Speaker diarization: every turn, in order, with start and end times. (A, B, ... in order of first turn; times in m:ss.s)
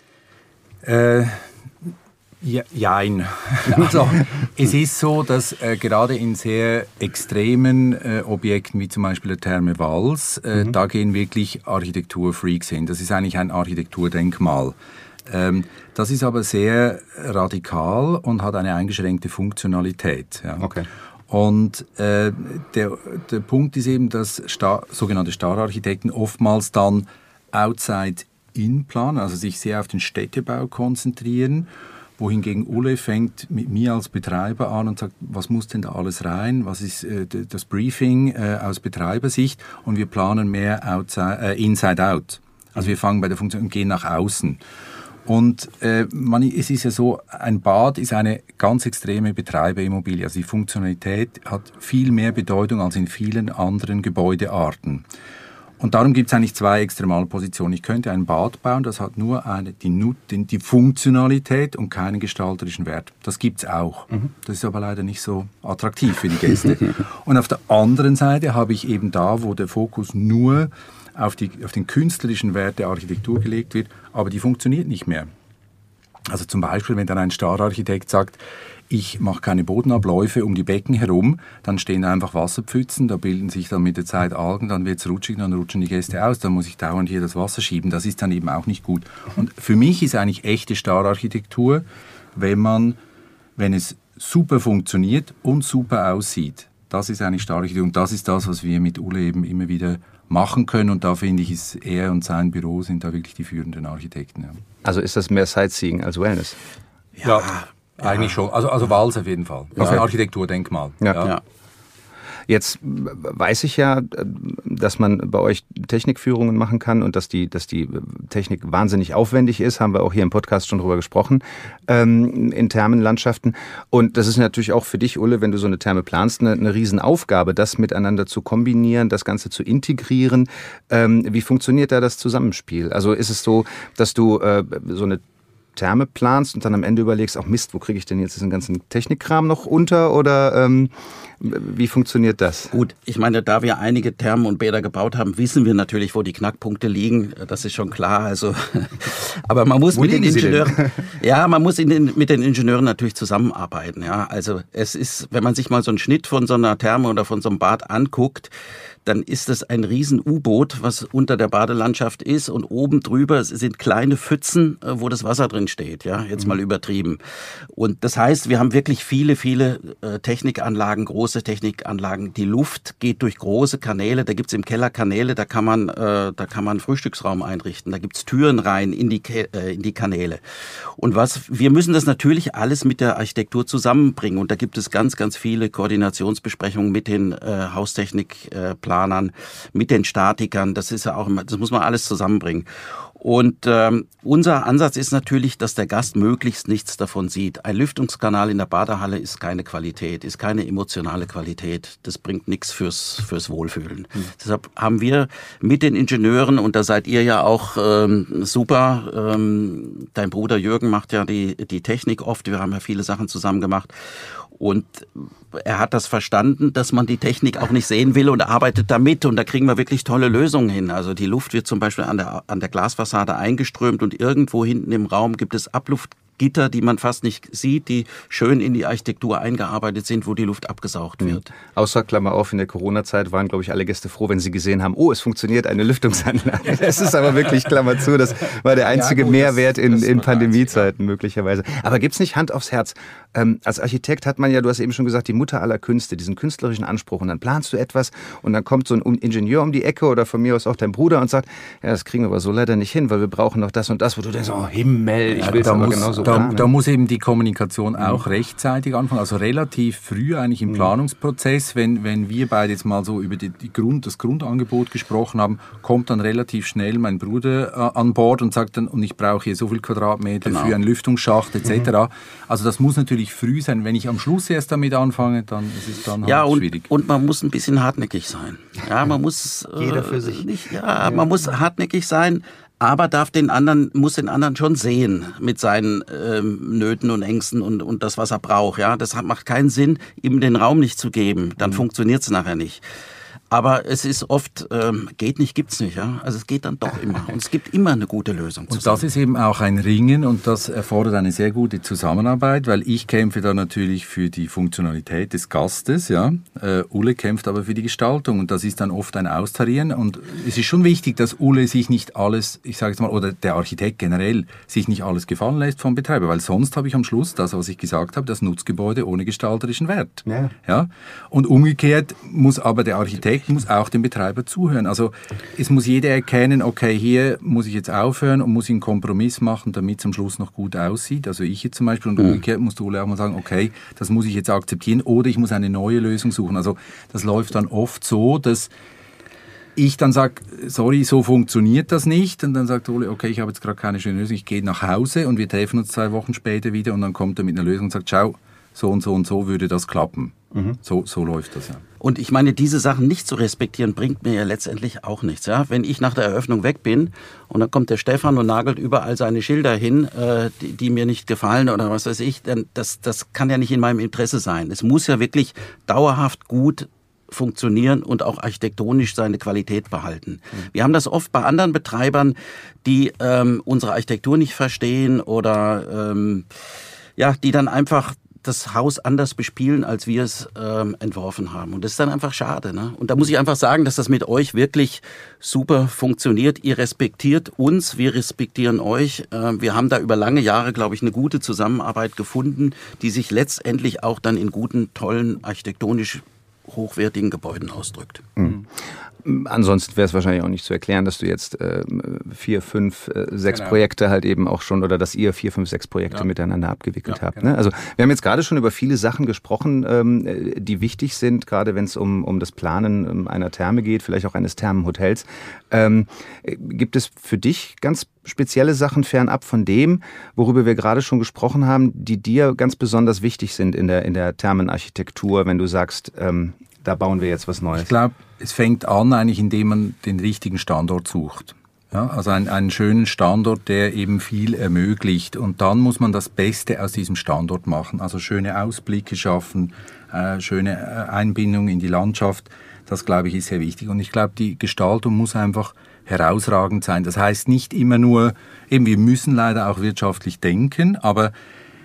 0:00.8-0:14.8 A
0:15.3-0:20.7 A
0:20.6-0:20.9 B
0:21.3-0:44.6 A
0:45.2-0:55.0 A
0:55.8-1:15.3 A
1:16.3-1:33.0 A
1:33.6-1:44.6 A
1:44.8-1:46.6 B
1:47.2-1:47.7 C
1:47.2-1:51.3 A
1:51.0-1:51.3 B
1:52.5-2:15.2 B
2:15.8-2:22.7 B
2:22.7-2:38.5 C
2:29.9-2:31.0 B
2:39.0-2:47.2 C
2:47.7-3:51.5 C
3:51.5-4:16.7 B
3:58.8-4:00.9 C
4:15.4-4:36.9 A
4:30.4-4:30.8 C
4:36.2-4:52.8 C
4:39.8-4:40.5 B
4:53.5-4:59.0 C
4:58.7-5:38.7 A
5:39.8-5:51.8 A
5:52.0-6:38.3 C
6:38.4-7:07.9 B
6:43.5-6:43.8 A
7:07.7-7:31.3 A